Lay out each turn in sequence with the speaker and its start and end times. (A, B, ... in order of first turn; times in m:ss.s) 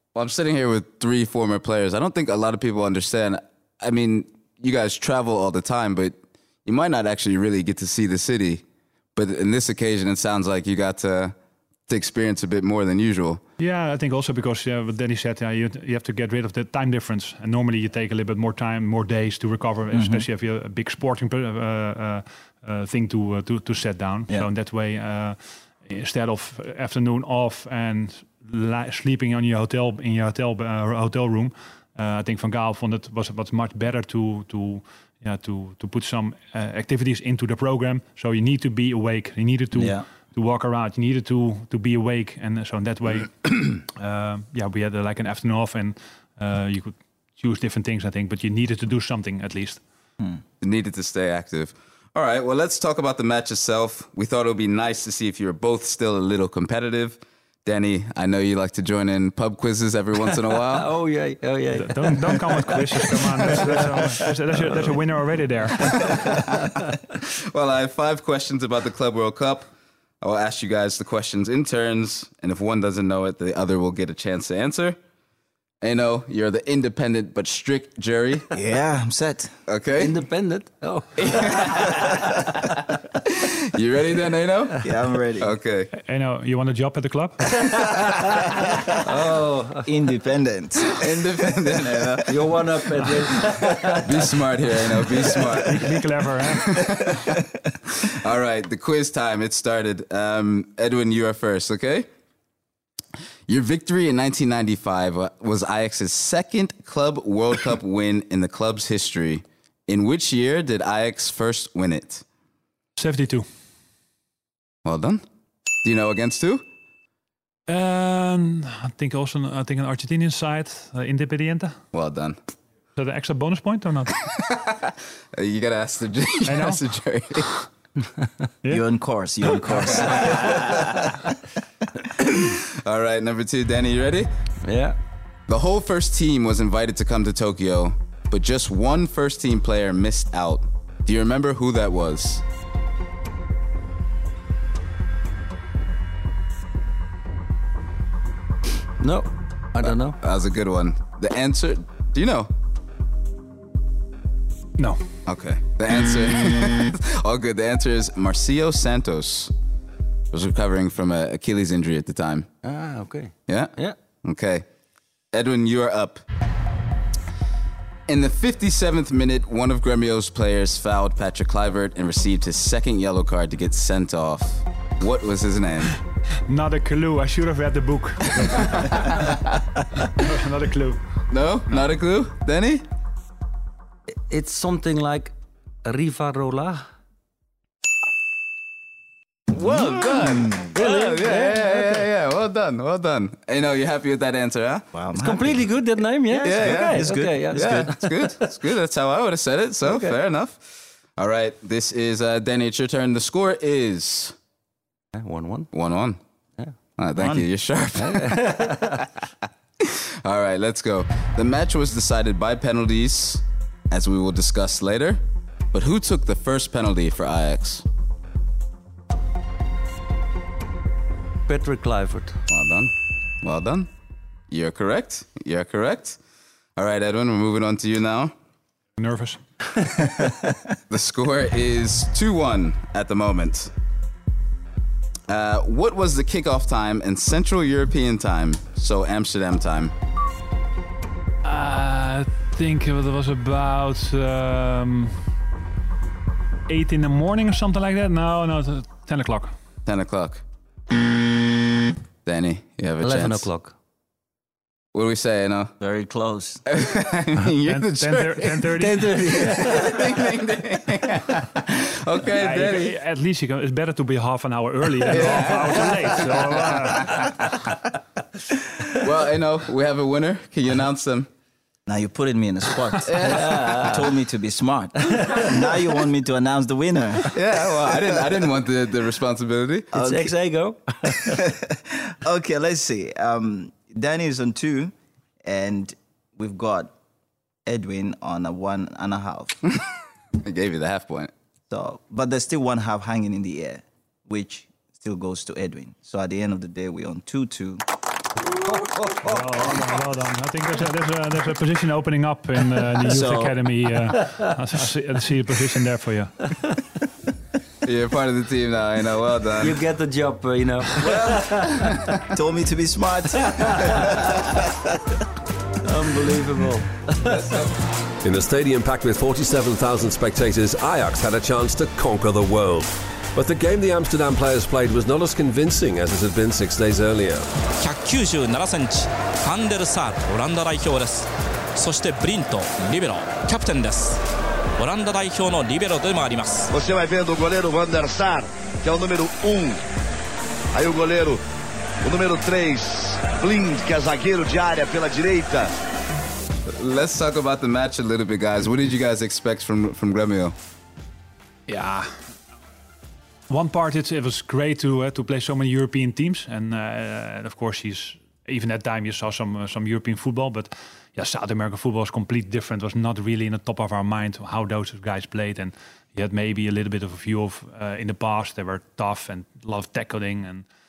0:00.1-0:08.6 A
0:09.2-0:11.4 A
0:11.9-0:13.4 A
0:13.6-0:49.8 B
0:19.9-0:20.2 C
0:39.7-0:40.0 C
0:50.6-1:00.9 A
1:00.7-1:04.9 D
1:01.7-1:06.2 B
1:05.9-1:06.7 D
1:07.5-1:09.7 A
1:10.2-1:15.0 A
1:15.8-1:18.5 A
1:18.5-1:19.6 C
1:19.7-1:20.1 A
1:20.0-1:22.4 D
1:21.2-1:22.1 A
1:23.3-1:24.8 A
1:24.8-1:25.5 C
1:25.4-1:25.9 A
1:25.9-1:27.6 B
1:27.8-1:28.2 D
1:29.0-1:29.9 D
1:29.8-1:31.0 C
1:31.0-1:32.3 A
1:32.2-1:34.3 D
1:34.0-1:35.8 A
1:35.7-1:36.8 B
1:36.6-1:37.1 A
1:38.1-1:42.1 A
1:43.5-1:52.2 A
1:53.0-1:53.5 B
1:54.8-1:55.2 A
1:55.8-1:56.6 A
1:57.7-2:01.8 B
2:01.9-2:02.4 A
2:03.0-2:04.1 B
2:04.7-2:07.5 A
2:06.5-2:06.8 B
2:08.7-2:11.1 C
2:09.9-2:10.6 A
2:12.2-2:14.3 A
2:14.6-2:15.0 D
2:15.5-2:22.4 A
2:29.0-2:30.2 D
2:29.8-2:32.5 A
2:34.8-2:35.2 B
2:35.2-2:39.5 A
2:40.3-2:42.5 A
2:42.6-2:44.0 D
2:43.5-2:44.7 A
2:45.3-2:46.2 A
2:48.1-2:56.0 A
2:56.5-2:59.3 B
3:00.1-3:01.0 B
3:01.3-3:02.8 A
3:04.3-3:06.8 D
3:09.5-3:14.9 A
3:09.6-3:10.7 C
3:10.8-3:12.0 D
3:14.9-3:15.7 C
3:15.1-3:18.4 D
3:16.4-3:24.4 A
3:16.4-3:18.0 C
3:19.8-3:20.1 D
3:25.1-3:25.7 D
3:25.7-3:26.2 A
3:27.0-3:28.6 A
3:28.0-3:29.1 D
3:29.8-3:35.2 A
3:35.7-3:37.8 A
3:41.5-3:42.4 D
3:42.5-3:43.9 A
3:44.5-3:46.2 A
3:46.8-3:48.3 A
3:49.0-3:49.4 B
3:50.9-3:53.7 A
3:55.3-3:59.9 A
4:01.4-4:05.3 B
4:06.7-4:09.6 B
4:09.9-4:10.4 A
4:12.2-4:13.5 A
4:13.0-4:13.7 D
4:14.9-4:15.7 A
4:15.8-4:16.6 C
4:16.7-4:22.9 A
4:17.6-4:19.5 B
4:18.8-4:20.1 D
4:22.4-4:27.4 B
4:25.1-4:26.7 A
4:28.9-4:31.3 A
4:31.9-4:37.3 C
4:33.0-4:33.9 A
4:33.2-4:34.1 D
4:35.1-4:35.5 D
4:37.3-4:39.9 A
4:39.9-4:40.3 C
4:39.9-4:41.5 D
4:41.3-4:44.9 C
4:45.4-4:46.9 C
4:47.7-4:49.6 C
4:50.4-4:51.3 A
4:51.7-4:57.8 C
4:59.2-5:06.5 B
5:03.0-5:03.6 C
5:07.8-5:09.8 A
5:09.6-5:11.8 D
5:11.0-5:12.1 A
5:12.3-5:14.5 C
5:13.5-5:14.3 D
5:15.8-5:17.6 D
5:17.2-5:17.7 A
5:18.2-5:27.5 E
5:27.8-5:34.2 F
5:34.8-5:36.7 F
5:36.7-5:39.8 G
5:40.7-5:41.4 G
5:42.1-5:45.7 G
5:46.7-5:50.6 A
5:51.7-5:52.2 B
5:53.5-6:10.7 B